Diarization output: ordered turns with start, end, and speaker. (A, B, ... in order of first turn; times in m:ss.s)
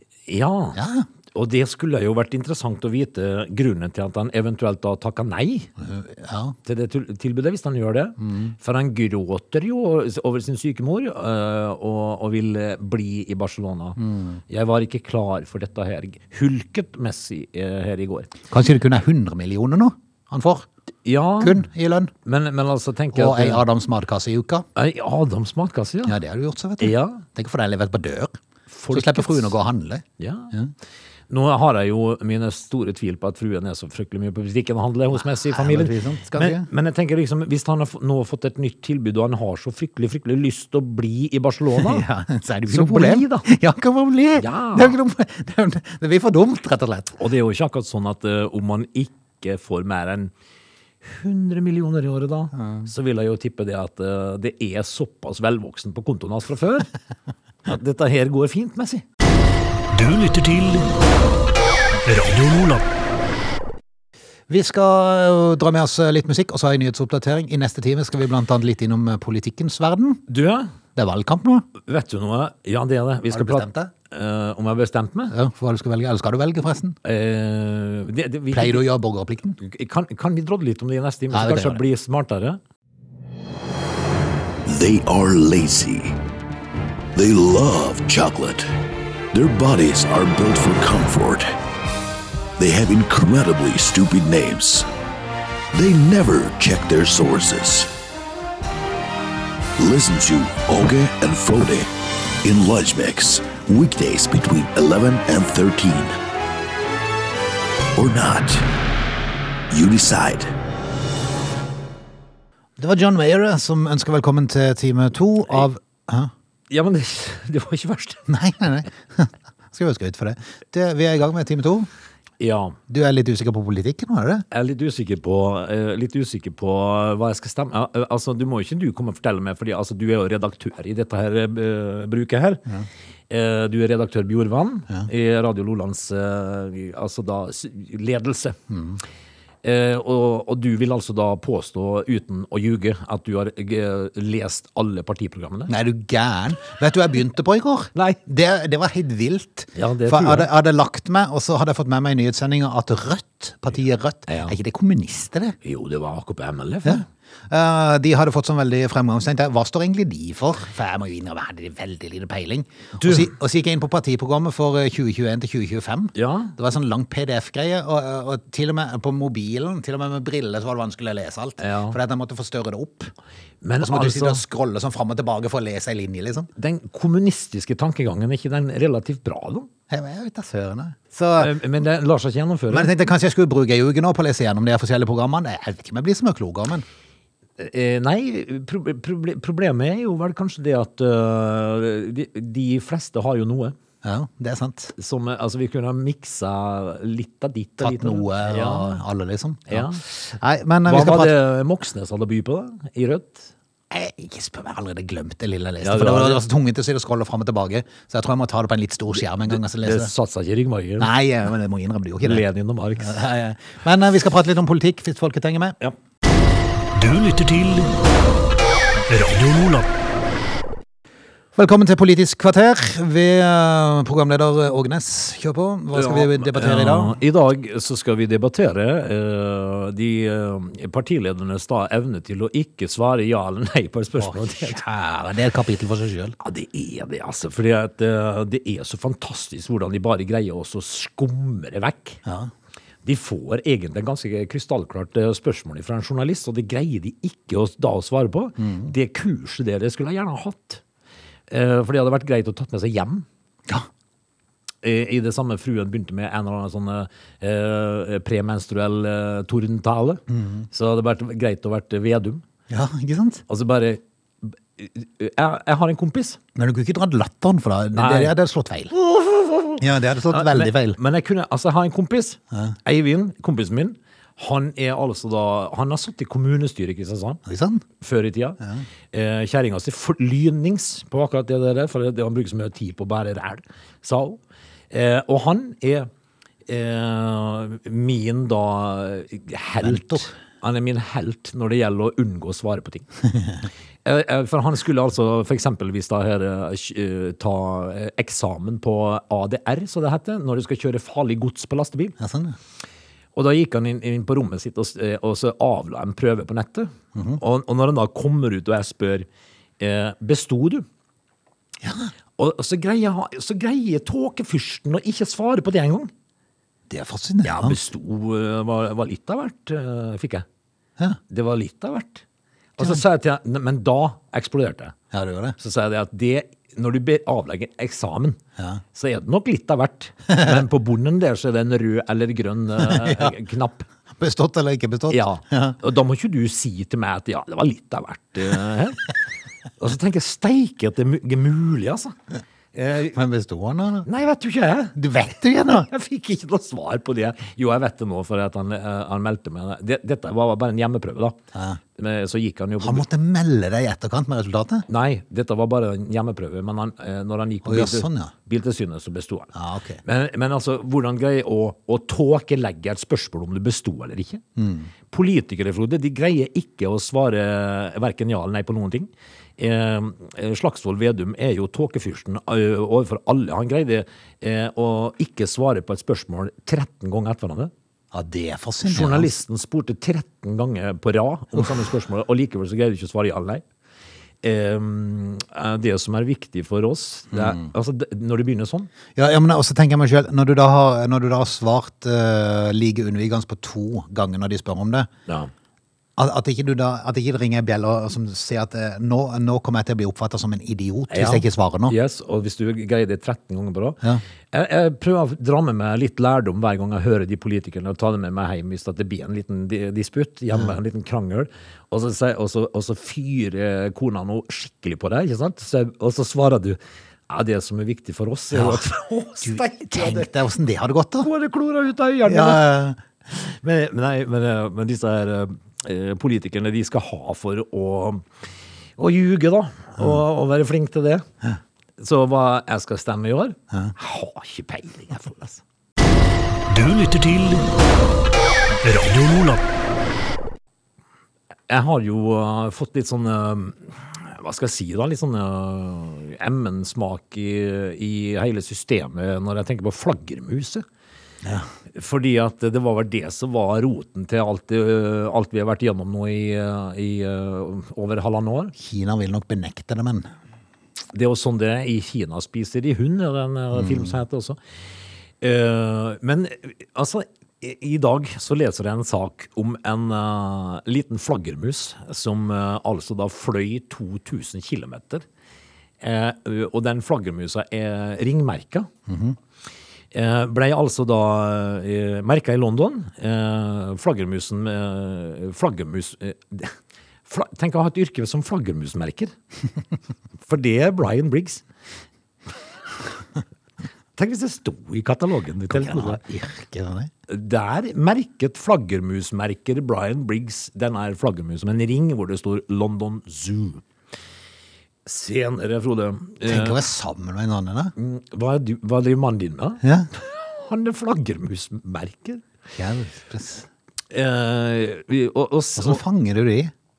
0:00.3-0:00.8 A
0:00.8-0:01.1 B
0:01.3-0:05.7 A
0:05.8-0:06.6 B
0:06.6-0:14.0 A
0:08.2-0:08.5 B
0:14.0-0:14.4 B
0:14.5-0:18.3 A
0:18.5-0:20.7 B
0:21.0-0:21.7 A
0:21.4-0:22.1 B
0:22.2-0:23.6 A
0:23.1-0:24.7 B
0:24.8-0:26.2 A
0:26.1-0:28.4 B
0:26.8-0:27.2 A
0:28.7-0:29.5 A
0:28.9-0:30.7 B
0:30.2-0:30.5 A
0:31.3-0:42.1 A
0:35.2-0:36.7 B
0:41.8-0:47.2 B
0:42.7-0:43.5 A
0:44.4-0:45.0 A
0:47.2-0:50.3 A
0:51.0-0:56.9 A
0:52.6-0:52.9 B
0:57.7-0:59.0 A
0:59.9-1:00.9 C
1:02.0-1:02.8 C
1:04.5-1:10.2 B
1:10.3-1:10.7 A
1:11.0-1:11.7 B
1:11.8-1:15.3 A
1:13.3-1:13.9 B
1:15.3-1:17.0 B
1:17.0-1:18.9 A
1:18.5-1:19.6 B
1:19.6-1:22.6 A
1:21.3-1:21.8 B
1:24.7-1:26.2 D
1:27.2-1:28.7 D
1:29.3-1:31.5 D
1:32.6-1:34.9 D
1:35.7-1:37.9 D
1:39.8-1:41.9 D
1:42.4-1:46.2 D
1:48.0-1:48.7 D
1:49.7-1:50.5 D
1:52.8-1:56.3 B
1:56.7-1:58.2 A
1:58.3-2:01.9 B
2:02.4-2:02.8 A
2:02.9-2:04.4 B
2:04.5-2:12.6 A
2:13.3-2:18.6 A
2:18.7-2:19.0 B
2:19.6-2:25.7 A
2:25.7-2:35.6 B
2:29.8-2:30.5 A
2:34.3-2:34.5 A
2:35.6-2:37.0 A
2:36.8-2:53.1 B
2:43.0-2:43.3 A
2:46.2-2:46.6 A
2:51.6-2:52.0 A
2:53.6-2:54.4 A
2:53.8-2:56.5 B
2:56.6-2:59.7 A
2:59.9-3:01.6 B
3:01.4-3:02.9 A
3:02.7-3:06.8 B
3:07.6-3:13.8 A
3:14.0-3:14.9 B
3:15.0-3:19.0 A
3:17.8-3:21.3 B
3:19.7-3:20.0 A
3:20.8-3:23.5 A
3:23.9-3:30.1 B
3:25.8-3:26.5 A
3:29.3-3:31.1 A
3:31.0-3:32.4 B
3:32.2-3:33.2 A
3:33.0-3:35.8 B
3:36.9-3:37.9 C
3:39.1-3:39.9 C
3:41.6-3:47.2 B
3:45.9-3:54.8 A
3:54.2-3:56.4 B
3:56.4-4:02.2 A
4:02.2-4:02.5 B
4:03.0-4:10.8 A
4:08.6-4:08.9 B
4:11.5-4:13.3 A
4:14.8-4:22.4 A
4:20.3-4:20.7 B
4:22.7-4:23.4 B
4:23.5-4:26.4 A
4:26.6-4:28.9 B
4:27.9-4:28.3 A
4:28.9-4:37.4 A
4:29.8-4:31.0 B
4:37.5-4:37.8 B
4:38.0-4:38.6 A
4:39.1-4:44.4 A
4:44.9-4:46.1 A
4:46.7-4:53.1 A
4:49.8-4:50.3 B
4:54.0-5:02.2 A
5:02.2-5:02.6 B
5:03.4-5:09.3 A
5:07.2-5:07.4 B
5:09.8-5:10.8 A
5:11.8-5:12.1 B
5:12.4-5:16.1 A
5:16.9-5:17.8 B
5:17.4-5:20.5 A
5:21.3-5:22.2 A
5:22.8-5:25.0 A
5:25.1-5:25.6 B
5:25.6-5:28.4 A
5:28.9-5:33.9 A
5:32.8-5:33.3 B
5:34.2-5:35.8 B
5:35.1-5:39.1 A
5:39.8-5:42.2 A
5:42.8-5:43.1 A
5:43.0-5:44.1 B
5:44.1-5:45.0 A
5:45.0-5:45.9 B
5:45.5-5:51.4 A
5:51.5-5:51.8 B
5:52.0-5:53.1 A
5:52.8-5:54.9 B
5:54.9-5:59.5 A
5:57.6-5:58.3 B
5:59.5-6:00.0 B
6:00.0-6:04.4 A
6:04.6-6:04.9 B
6:05.1-6:17.7 A
6:18.1-6:19.3 B
6:18.9-6:23.6 A
6:24.4-6:28.9 A
6:27.3-6:27.7 B
6:29.2-6:35.1 B
6:36.2-6:42.0 B
6:41.1-6:44.0 A
6:44.5-7:00.3 A
6:58.5-6:58.8 B
6:59.4-7:01.3 B
7:01.2-7:02.8 A
7:02.3-7:03.0 B
7:03.3-7:08.3 A
7:09.0-7:11.3 A
7:12.0-7:15.6 A
7:16.7-7:17.7 C
7:18.8-7:19.6 C
7:21.7-7:30.8 A
7:31.9-7:38.7 A
7:38.8-7:40.3 B
7:41.1-7:44.6 A
7:43.8-7:44.1 B
7:45.4-7:55.3 A
7:56.0-7:58.9 A
7:59.1-7:59.4 B
8:00.1-8:09.3 A
8:10.4-8:11.6 A
8:14.2-8:16.2 A
8:15.7-8:17.1 B
8:17.3-8:23.8 A
8:25.0-8:26.8 A
8:26.4-8:27.9 B
8:28.0-8:32.4 A
8:29.8-8:30.1 B
8:32.8-8:33.7 B
8:34.1-8:36.0 A
8:35.8-8:36.7 B